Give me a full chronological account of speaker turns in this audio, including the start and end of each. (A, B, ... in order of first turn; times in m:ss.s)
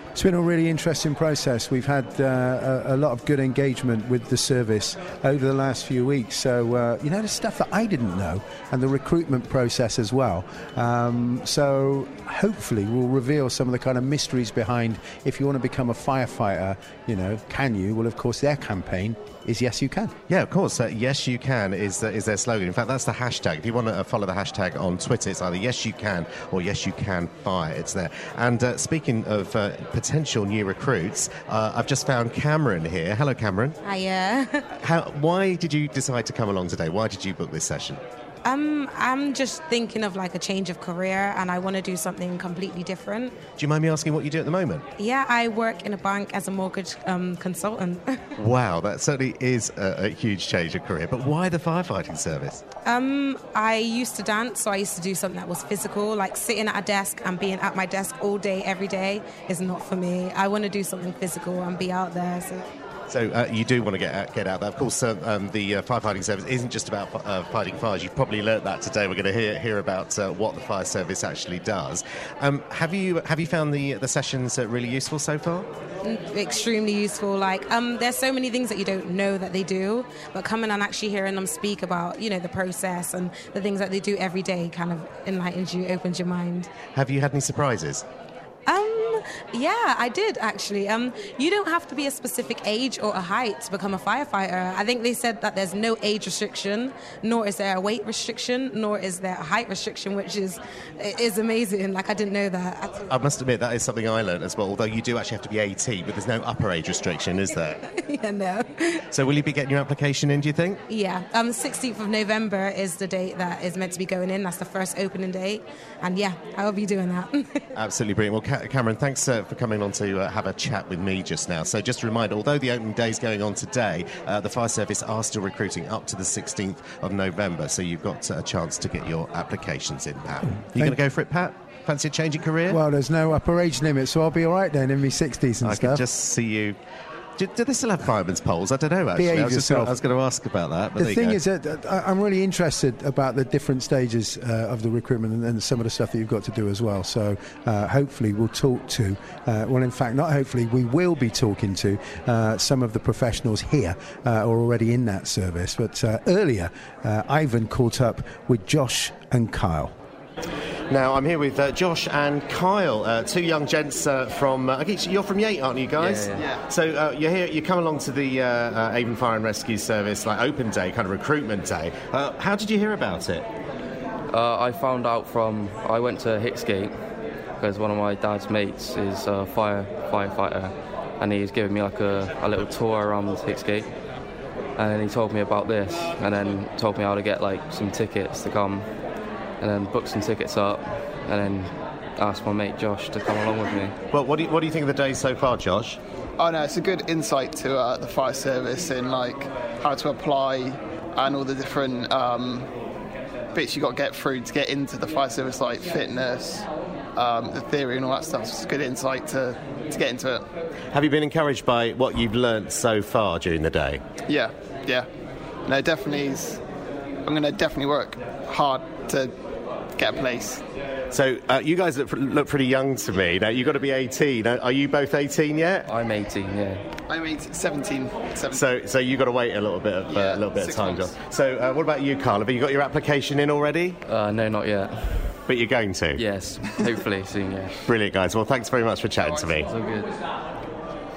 0:00.1-0:20.1 A
0:20.3-0:33.8 B
0:33.8-0:34.7 C
0:34.8-0:38.0 B
0:38.4-0:43.3 C
0:43.6-0:44.8 B
0:45.0-0:48.2 C
0:48.4-0:52.6 B
0:52.8-1:02.7 C
1:03.1-1:15.7 B
1:16.0-1:26.7 C
1:26.9-1:28.0 B
1:28.7-1:43.1 C
1:43.1-1:47.8 B
1:47.9-1:49.0 C
1:49.1-1:50.8 B
1:50.9-1:57.6 C
1:57.7-2:12.8 B
2:12.7-2:16.0 A
2:15.6-2:16.8 B
2:17.4-2:21.4 B
2:19.2-2:19.9 A
2:21.0-2:39.9 A
2:40.9-2:53.4 B
2:46.0-2:46.4 D
2:54.3-2:56.9 D
2:57.6-3:03.9 D
3:04.8-3:08.9 D
3:09.6-3:13.9 D
3:14.1-3:16.0 B
3:16.4-3:22.7 E
3:23.5-3:30.4 E
3:30.9-3:34.0 B
3:34.3-3:35.1 E
3:35.6-3:36.6 E
3:37.2-3:39.4 E
3:40.0-3:40.6 E
3:41.1-3:45.9 B
3:45.9-3:46.8 D
3:47.1-3:48.6 E
3:48.5-3:54.0 B
3:50.1-3:51.1 E
3:54.0-3:55.4 D
3:55.5-3:56.2 B
3:56.2-3:57.8 D
3:57.9-3:59.7 B
3:59.6-4:00.1 D